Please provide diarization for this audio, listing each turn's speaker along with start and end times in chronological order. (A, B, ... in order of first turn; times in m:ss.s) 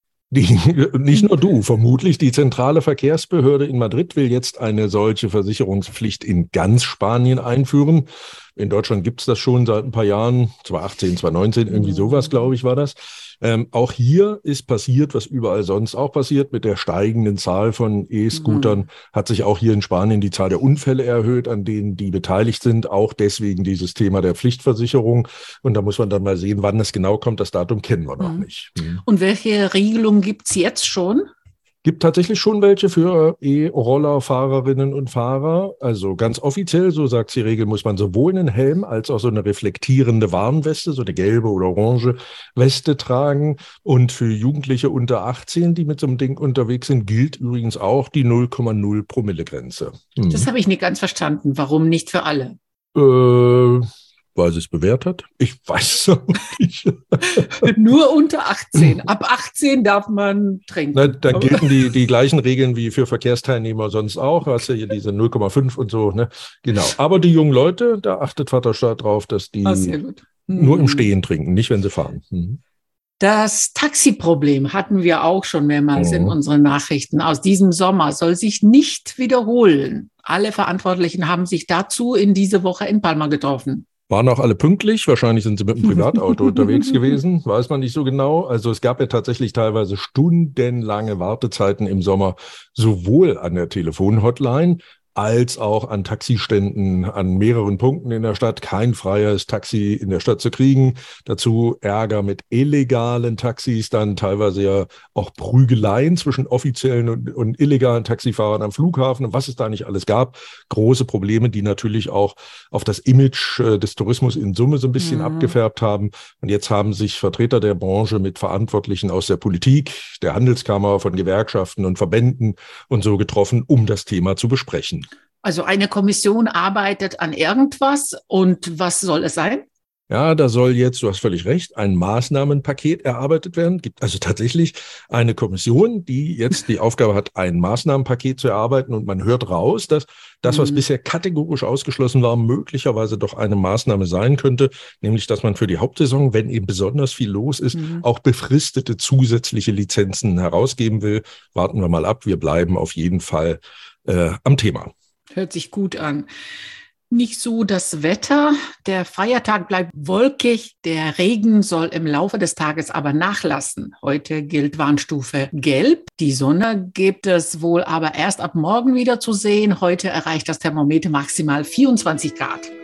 0:00.3-0:29.0 A
0:01.1-0:01.4 B
0:18.3-0:18.8 B
0:28.2-0:28.5 B
0:29.0-0:31.3 B
0:31.8-0:50.5 A
0:50.3-0:52.6 B
0:52.9-0:57.7 A
0:57.4-1:01.7 B
1:00.9-1:10.0 A
1:09.6-1:11.1 B
1:10.5-1:12.6 A
1:13.2-1:23.8 B
1:16.0-1:16.4 A
1:24.1-2:05.1 A
1:55.0-1:55.5 B
2:05.4-2:09.6 B
2:10.1-2:34.9 A
2:20.5-2:20.8 B
2:27.7-2:28.0 B
2:35.3-2:36.3 B
2:37.1-2:52.7 B